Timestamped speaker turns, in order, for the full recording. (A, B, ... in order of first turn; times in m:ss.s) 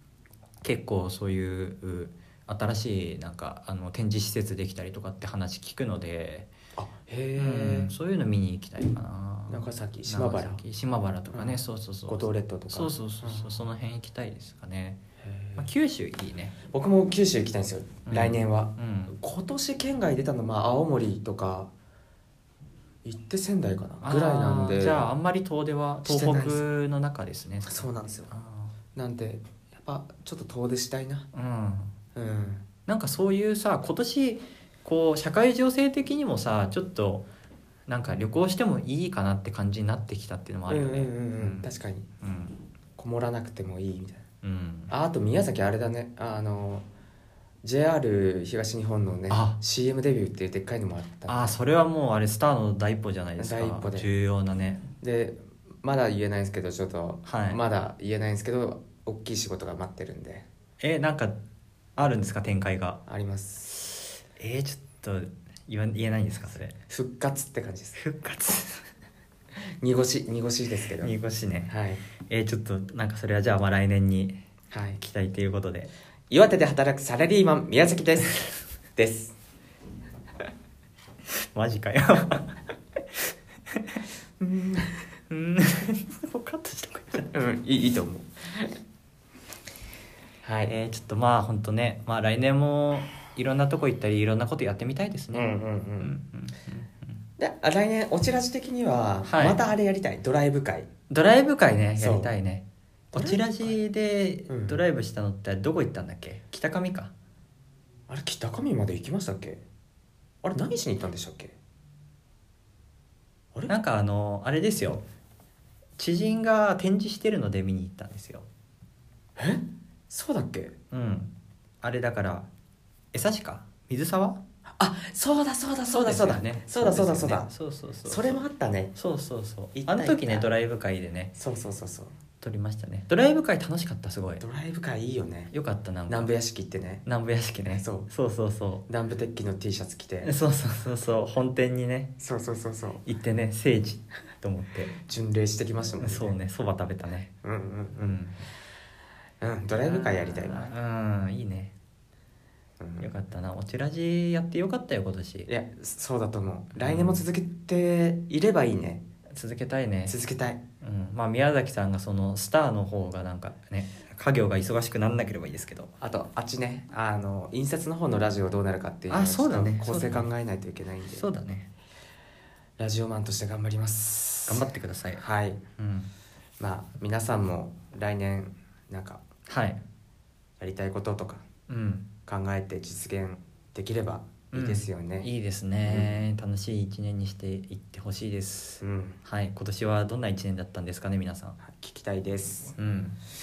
0:00.6-0:06.5 A
0:06.8-0:07.9 B
0:07.4-0:15.0 A
0:09.5-0:10.6 B
0:11.3-0:13.6 B
0:15.2-0:15.7 B
0:15.6-0:16.6 A
0:16.7-0:21.7 B
0:18.1-0:19.2 A
0:23.0-0:25.1 B
0:24.0-0:28.7 A
0:26.0-0:26.6 B
0:27.6-0:28.3 B
0:29.0-0:31.3 B
0:31.3-0:31.9 A
0:32.2-0:32.6 B
0:32.9-0:37.3 A
0:37.9-0:41.7 A
0:40.7-0:42.1 B
0:42.2-0:42.6 A
0:43.0-0:44.2 B
0:44.4-0:44.9 A
0:44.9-0:46.9 B
0:47.6-0:51.6 B
0:49.3-0:49.6 A
0:51.3-0:54.9 A
0:53.4-0:54.1 B
0:55.0-1:00.5 B
0:57.2-0:57.6 A
1:00.8-1:01.4 A
1:02.0-1:03.0 A
1:03.1-1:03.8 B
1:04.4-1:06.8 A
1:06.7-1:08.0 B
1:08.0-1:08.9 A
1:09.8-1:11.1 B
1:11.0-1:14.4 A
1:11.7-1:12.0 B
1:14.7-1:15.0 B
1:15.0-1:15.9 A
1:16.3-1:18.4 B
1:19.0-1:19.4 B
1:21.5-1:22.6 A
1:24.4-1:25.0 B
1:25.3-1:27.3 A
1:27.3-1:28.7 B
1:30.4-1:30.7 B
1:30.7-1:37.2 A
1:35.3-1:36.1 B
1:37.4-1:40.9 B
1:39.2-1:39.6 A
1:41.1-1:47.1 A
1:42.0-1:42.3 B
1:43.1-1:43.8 B
1:44.5-1:44.8 B
1:48.1-1:49.6 B
1:50.4-1:51.6 B
1:53.7-1:55.0 A
1:56.0-1:58.5 A
1:59.4-2:00.7 B
2:00.9-2:02.5 A
2:03.1-2:04.4 A
2:04.8-2:07.5 B
2:05.9-2:08.4 A
2:08.1-2:09.0 B
2:09.0-2:11.3 A
2:09.8-2:10.5 B
2:11.4-2:12.1 B
2:12.4-2:14.4 A
2:14.4-2:15.5 B
2:15.5-2:16.3 A
2:16.1-2:17.1 B
2:17.1-2:18.8 A
2:17.7-2:18.1 B
2:18.9-2:20.3 B
2:20.2-2:22.1 A
2:22.2-2:23.0 B
2:23.0-2:24.9 A
2:25.1-2:26.4 B
2:26.0-2:27.3 A
2:27.4-2:28.2 B
2:28.0-2:28.4 A
2:29.4-2:30.7 B
2:29.8-2:31.7 A
2:32.8-2:33.1 B
2:33.0-2:35.5 A
2:35.5-2:39.0 B
2:36.8-2:37.2 A
2:39.3-2:40.2 A
2:40.1-2:40.6 B
2:40.8-2:45.9 A
2:46.0-2:51.2 B
2:49.1-2:50.2 A
2:51.1-2:51.7 A
2:52.8-2:55.6 B
2:54.5-2:55.2 A
2:55.8-2:56.1 A
2:56.6-2:59.2 B
2:59.5-2:59.8 A
3:00.6-3:01.4 B
3:01.7-3:02.1 A
3:02.3-3:05.3 B
3:04.5-3:11.6 A
3:05.9-3:06.2 B
3:08.8-3:09.2 B
3:11.6-3:12.8 B
3:12.8-3:13.2 A